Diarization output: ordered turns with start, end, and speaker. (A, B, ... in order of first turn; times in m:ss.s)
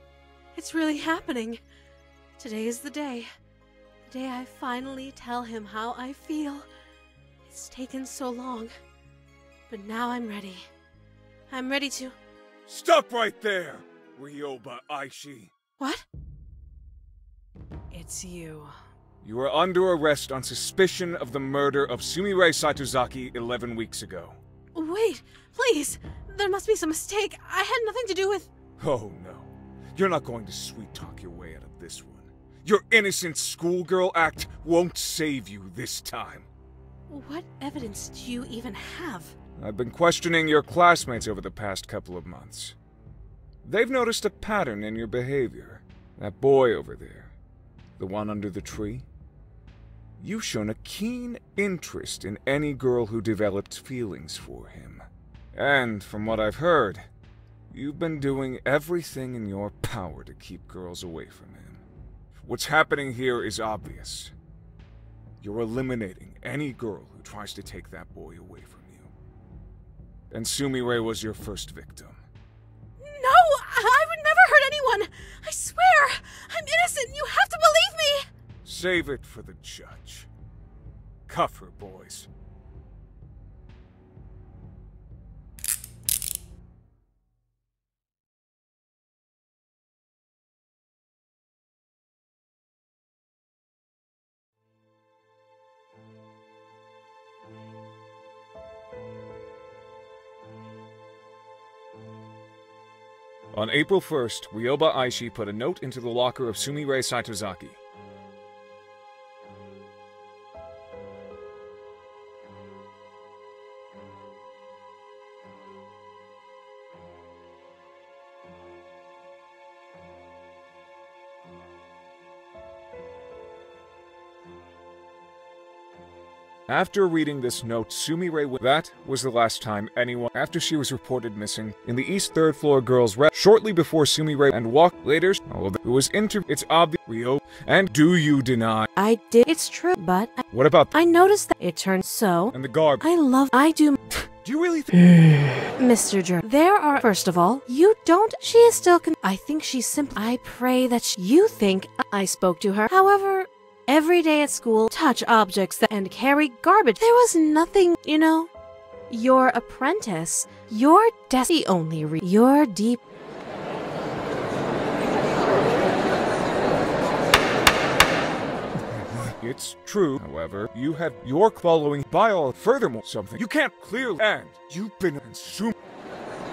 0:00.5-0:01.6 A
0:02.4-0:03.3 A
0:04.1-0:06.7 A
0:07.4-0:08.7 A
0:09.7-0:10.7 A
0:11.5-0:12.2 A
0:12.7-0:15.5 B
0:15.8-0:16.0 A
0:17.9-0:18.7 A
0:19.2-0:24.4 B
0:24.8-0:28.5 A
0:28.8-0:36.5 B
0:37.1-0:39.3 A
0:39.6-0:42.8 B
0:43.6-0:47.4 B
0:48.0-0:49.1 B
0:50.2-0:57.1 B
0:57.7-1:01.8 B
1:02.4-1:04.3 B
1:05.4-1:09.1 B
1:10.3-1:12.2 B
1:13.0-1:18.3 A
1:18.6-1:20.3 B
1:21.3-1:22.3 B
1:43.5-1:47.8 B
2:06.7-2:18.9 B
2:19.0-2:24.0 A
2:20.5-2:20.9 B
2:22.5-2:23.0 B
2:24.4-2:24.9 B
2:25.0-2:38.5 A
2:39.1-2:43.0 A
2:49.1-2:55.7 B